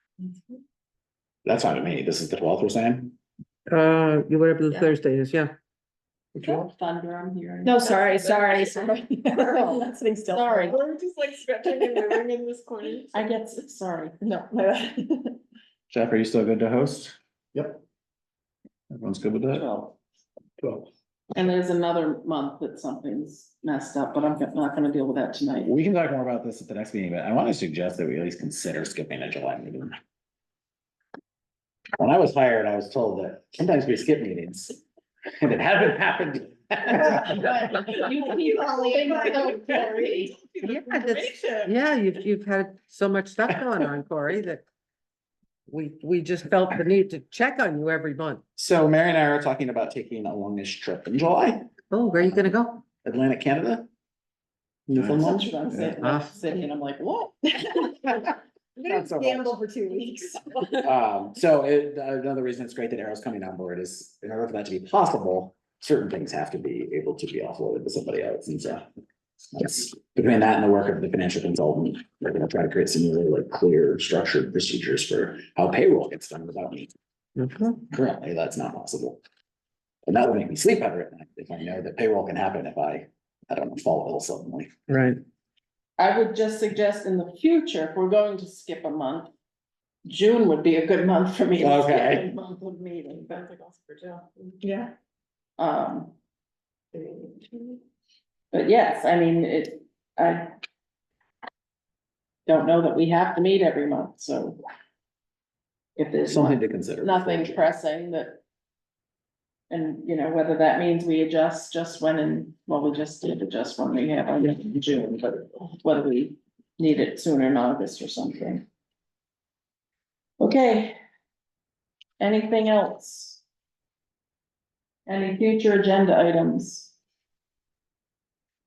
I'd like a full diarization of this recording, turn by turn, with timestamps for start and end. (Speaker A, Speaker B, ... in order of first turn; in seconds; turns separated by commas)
Speaker A: 1.4-3.1, Speaker B: 3.7-5.5, Speaker A: 6.4-6.7, Speaker C: 6.4-8.4, Speaker D: 7.6-13.2, Speaker C: 9.4-10.8, Speaker C: 11.8-12.2, Speaker C: 13.1-15.3, Speaker A: 15.9-17.8, Speaker A: 18.9-19.7, Speaker C: 19.5-20.0, Speaker A: 20.6-20.9, Speaker C: 21.3-25.7, Speaker A: 25.6-29.9, Speaker A: 32.0-34.8, Speaker A: 35.4-37.7, Speaker C: 37.0-40.4, Speaker D: 37.1-41.7, Speaker B: 40.6-44.6, Speaker B: 45.7-48.4, Speaker A: 48.5-51.7, Speaker B: 51.9-52.8, Speaker A: 52.2-53.9, Speaker A: 54.9-55.9, Speaker C: 54.9-58.0, Speaker B: 56.0-56.4, Speaker A: 58.8-59.5, Speaker D: 58.8-60.8, Speaker A: 60.8-68.8, Speaker A: 69.5-76.9, Speaker B: 77.3-77.8, Speaker A: 77.9-79.2, Speaker A: 80.0-84.7, Speaker B: 84.9-85.2, Speaker C: 86.0-89.3, Speaker C: 90.0-94.5, Speaker A: 91.6-92.3, Speaker D: 94.6-94.9, Speaker C: 95.6-96.1, Speaker C: 97.0-97.3, Speaker C: 98.5-100.5, Speaker C: 102.5-104.6, Speaker C: 106.0-108.4, Speaker A: 106.3-107.7, Speaker C: 109.7-118.7, Speaker C: 120.4-121.0, Speaker C: 122.2-123.4, Speaker C: 125.0-126.9